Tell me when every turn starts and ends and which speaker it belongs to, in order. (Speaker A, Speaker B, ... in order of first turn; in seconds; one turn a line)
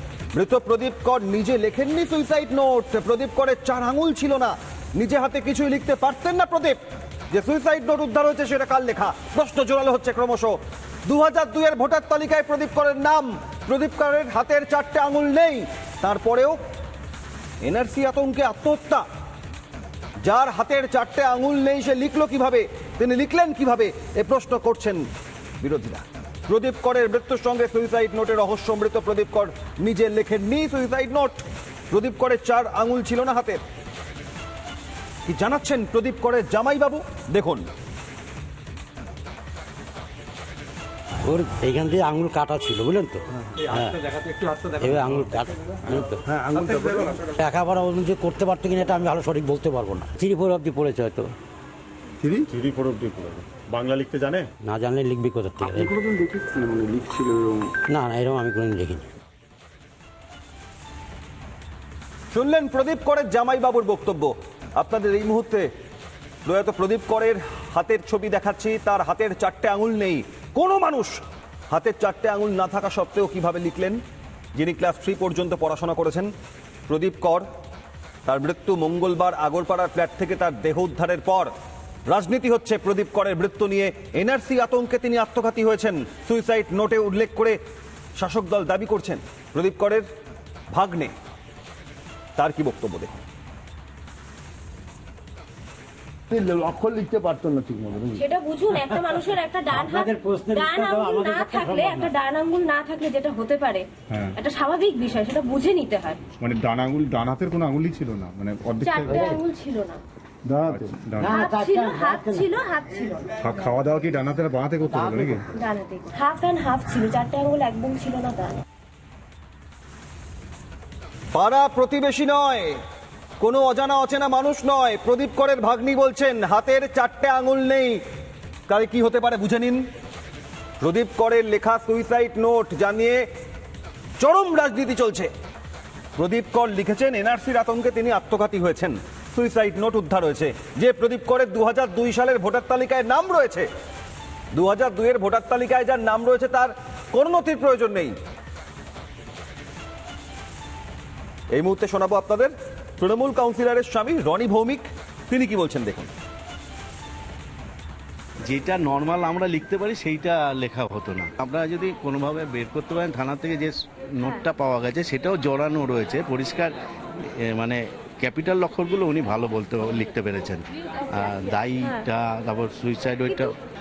Speaker A: 0.3-6.8
Speaker A: 7.3-16.6
Speaker A: 17.6-19.0
Speaker A: 20.2-25.0
Speaker A: 25.6-33.6
Speaker A: 35.2-37.6
Speaker B: 41.2-44.1
Speaker B: 44.7-46.2
Speaker C: 46.3-47.1
Speaker A: 46.5-47.1
Speaker B: 47.3-51.3
Speaker C: 52.2-54.5
Speaker B: 54.6-55.9
Speaker D: 56.0-57.6
Speaker B: 57.9-59.0
Speaker A: 62.3-65.7
Speaker A: 66.4-74.0
Speaker A: 74.5-76.3
Speaker A: 76.9-77.5
Speaker A: 78.2-81.5
Speaker A: 82.1-87.6
Speaker A: 88.2-90.0
Speaker A: 90.7-91.1
Speaker A: 92.3-93.2
Speaker D: 96.3-98.1
Speaker E: 98.1-106.2
Speaker B: 99.7-102.1
Speaker C: 106.4-109.3
Speaker E: 108.8-110.0
Speaker B: 109.1-109.4
Speaker C: 110.5-111.3
Speaker B: 111.1-112.5
Speaker E: 111.2-113.3
Speaker C: 113.4-115.5
Speaker B: 114.9-115.4
Speaker E: 115.5-118.6
Speaker A: 121.3-122.8
Speaker A: 123.4-128.0
Speaker A: 128.7-129.8
Speaker A: 130.8-133.2
Speaker A: 134.2-135.3
Speaker A: 136.2-143.7
Speaker A: 144.5-148.1
Speaker A: 151.5-156.1
Speaker F: 158.4-166.7
Speaker F: 167.4-173.5